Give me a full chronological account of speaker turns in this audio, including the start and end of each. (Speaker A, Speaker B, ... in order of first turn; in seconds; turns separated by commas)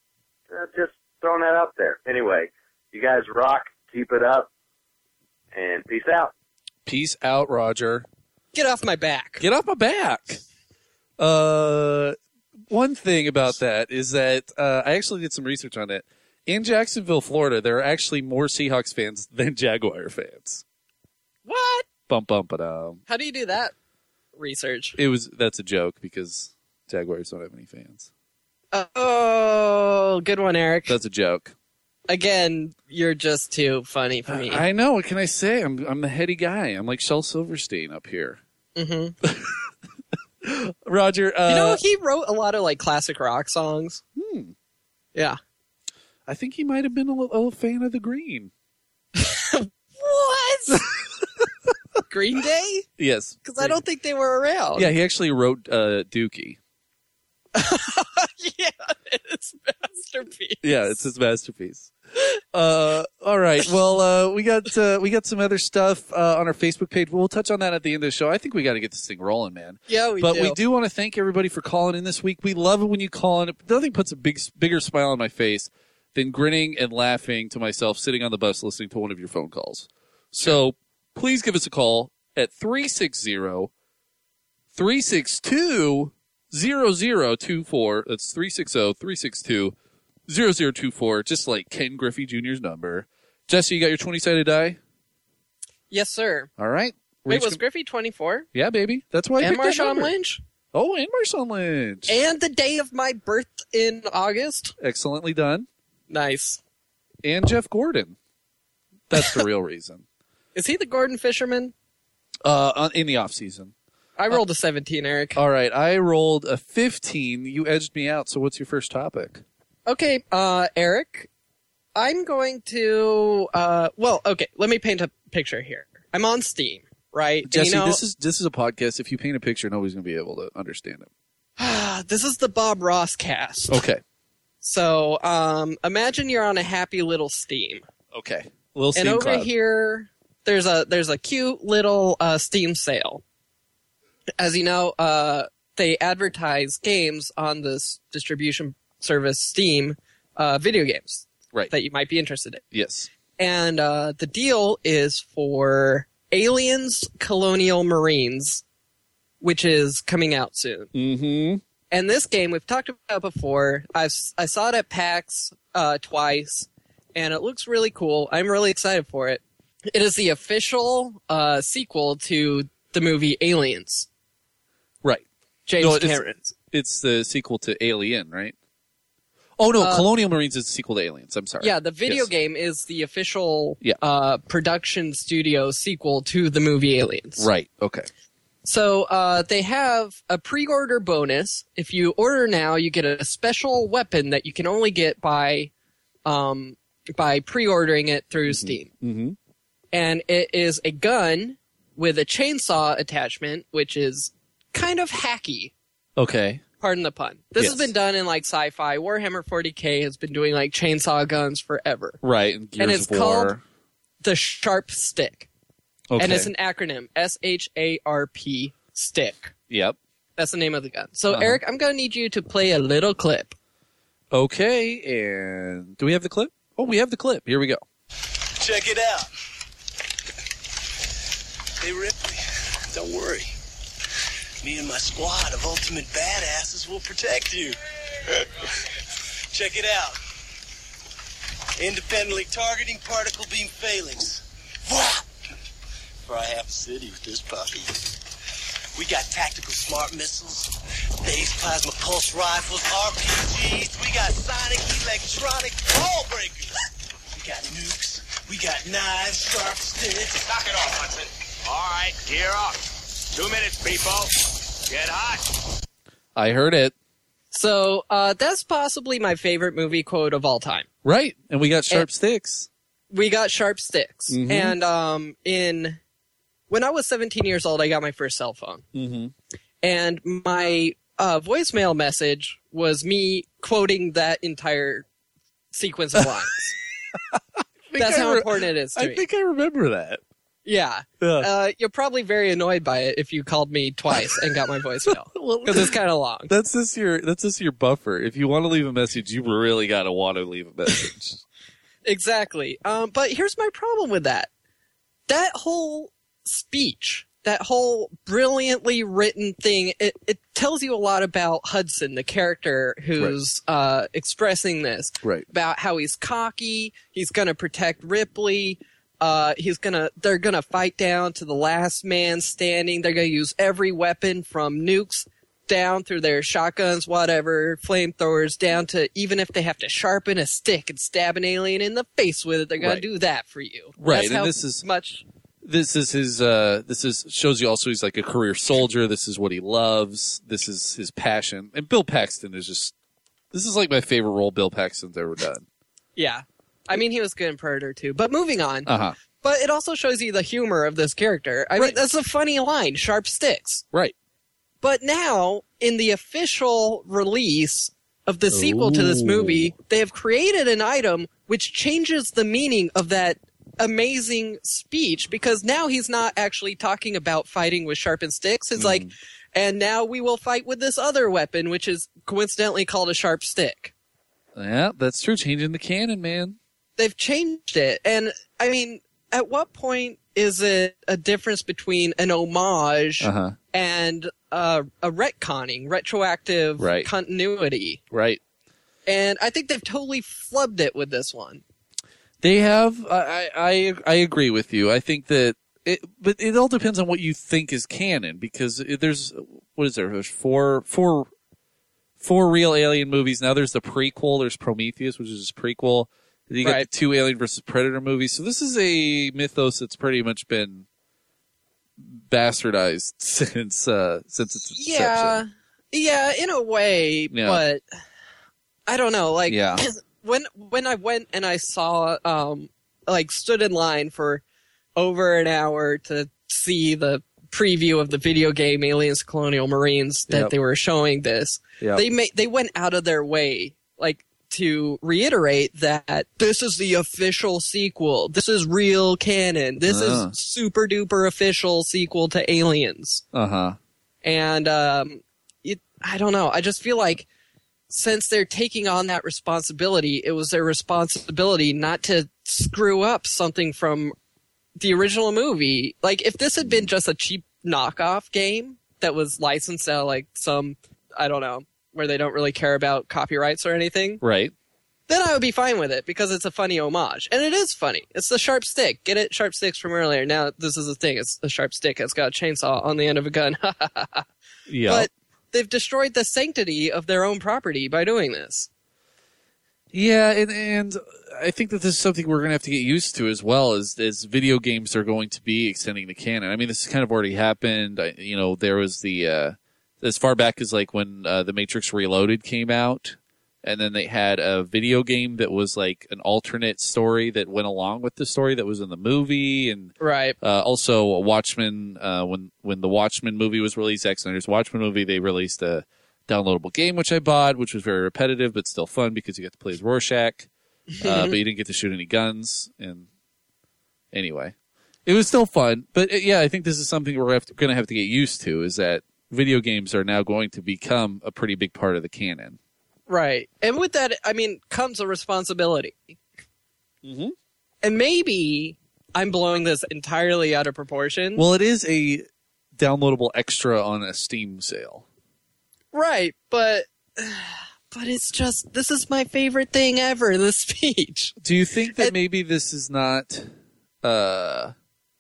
Speaker A: 0.5-4.5, Speaker A: 5.5-6.3, Speaker B: 6.8-8.1, Speaker C: 8.5-9.4, Speaker B: 9.4-10.4, Speaker B: 11.2-12.2, Speaker B: 12.7-20.6, Speaker C: 21.5-21.9, Speaker B: 22.1-23.0, Speaker C: 23.1-23.7, Speaker C: 24.4-25.0, Speaker B: 25.0-28.1, Speaker C: 28.7-30.9, Speaker B: 30.9-31.5, Speaker C: 32.1-34.6, Speaker B: 34.3-38.4, Speaker C: 38.8-39.1, Speaker B: 39.2-39.7, Speaker B: 40.4-41.8, Speaker C: 41.5-44.0, Speaker B: 44.2-44.5, Speaker B: 46.3-48.5, Speaker C: 49.2-50.8, Speaker C: 52.1-52.9, Speaker B: 53.0-53.8, Speaker C: 53.4-54.9, Speaker B: 54.8-56.6, Speaker C: 57.5-61.0, Speaker B: 60.6-61.9, Speaker B: 62.5-83.7, Speaker C: 69.9-70.6, Speaker B: 84.7-89.8, Speaker B: 90.3-94.8, Speaker C: 95.9-96.5, Speaker B: 96.6-97.6, Speaker C: 97.3-98.5, Speaker B: 98.5-100.1, Speaker C: 99.4-100.4, Speaker B: 100.7-102.1, Speaker C: 102.1-104.7, Speaker B: 104.8-105.7, Speaker C: 106.1-106.6, Speaker B: 107.2-108.2, Speaker B: 109.1-110.0, Speaker C: 109.2-109.4, Speaker C: 110.5-111.7, Speaker B: 112.4-113.7, Speaker C: 114.2-115.4, Speaker B: 115.4-119.4, Speaker C: 119.9-121.3, Speaker C: 122.0-128.0, Speaker B: 127.5-131.1, Speaker C: 131.6-133.8, Speaker B: 133.7-134.0, Speaker C: 134.6-137.8, Speaker B: 138.1-139.5, Speaker C: 139.0-143.2, Speaker C: 144.4-152.6, Speaker B: 152.7-153.1, Speaker C: 153.4-158.6, Speaker C: 159.4-160.9, Speaker B: 160.9-161.6, Speaker C: 161.9-174.1, Speaker C: 175.7-176.5, Speaker B: 175.8-176.2, Speaker B: 176.7-178.6, Speaker B: 179.6-182.3, Speaker C: 179.8-180.1, Speaker C: 181.6-187.5, Speaker B: 187.4-188.1, Speaker C: 188.6-195.7, Speaker C: 196.3-198.9, Speaker B: 198.5-199.4, Speaker C: 199.9-205.7, Speaker B: 206.2-206.6, Speaker C: 206.8-212.2, Speaker B: 207.6-207.9, Speaker B: 212.2-213.6, Speaker C: 212.8-213.6, Speaker C: 214.2-215.5, Speaker B: 216.1-216.5, Speaker C: 216.2-219.5, Speaker B: 219.7-220.0, Speaker C: 220.4-223.6, Speaker B: 221.3-221.6, Speaker B: 224.3-227.8, Speaker D: 228.6-229.3, Speaker D: 231.8-233.5, Speaker D: 234.6-238.7, Speaker D: 239.5-240.2, Speaker D: 241.8-245.3, Speaker D: 246.2-248.2, Speaker D: 248.9-250.7, Speaker D: 251.2-256.7, Speaker D: 257.3-260.4, Speaker E: 260.5-262.8, Speaker E: 263.3-265.4, Speaker B: 266.4-266.9, Speaker C: 267.5-270.9, Speaker B: 271.0-272.7, Speaker C: 273.1-276.0, Speaker B: 274.3-274.8, Speaker C: 276.7-278.9, Speaker B: 278.9-279.3, Speaker C: 279.8-285.1, Speaker C: 285.7-286.6, Speaker B: 287.3-290.2, Speaker C: 288.0-289.2, Speaker C: 290.7-296.5, Speaker B: 291.2-291.5, Speaker B: 295.1-295.9, Speaker B: 296.5-301.4, Speaker C: 302.1-304.5, Speaker C: 305.3-335.2, Speaker B: 315.2-315.5, Speaker B: 332.8-333.1, Speaker B: 334.0-334.9, Speaker B: 335.6-342.9, Speaker B: 343.5-345.6, Speaker C: 346.2-353.9, Speaker B: 348.9-349.2, Speaker C: 354.8-373.9, Speaker B: 358.5-359.7, Speaker B: 368.8-369.1, Speaker B: 374.6-376.6, Speaker C: 377.0-388.0, Speaker B: 383.2-383.6, Speaker B: 386.8-387.1, Speaker B: 388.1-388.4, Speaker C: 389.1-391.6, Speaker B: 392.4-401.3, Speaker B: 402.2-410.9, Speaker B: 412.0-415.4, Speaker C: 414.7-417.8, Speaker B: 417.3-417.6, Speaker C: 418.9-424.4, Speaker B: 419.5-419.8, Speaker C: 425.0-443.2, Speaker B: 439.9-440.3, Speaker B: 443.3-443.8, Speaker C: 444.2-447.3, Speaker C: 447.9-454.1, Speaker C: 454.8-464.2, Speaker B: 464.2-464.5, Speaker C: 465.1-474.3, Speaker B: 474.7-475.1, Speaker C: 474.9-478.7, Speaker B: 479.9-510.5, Speaker C: 500.0-500.4, Speaker C: 510.9-511.4, Speaker B: 511.0-513.1, Speaker B: 514.1-514.5, Speaker B: 515.1-522.6, Speaker C: 523.1-526.2, Speaker B: 527.0-527.4, Speaker C: 527.8-531.4, Speaker B: 531.4-532.3, Speaker B: 532.8-535.0, Speaker C: 535.9-541.4, Speaker B: 541.4-544.8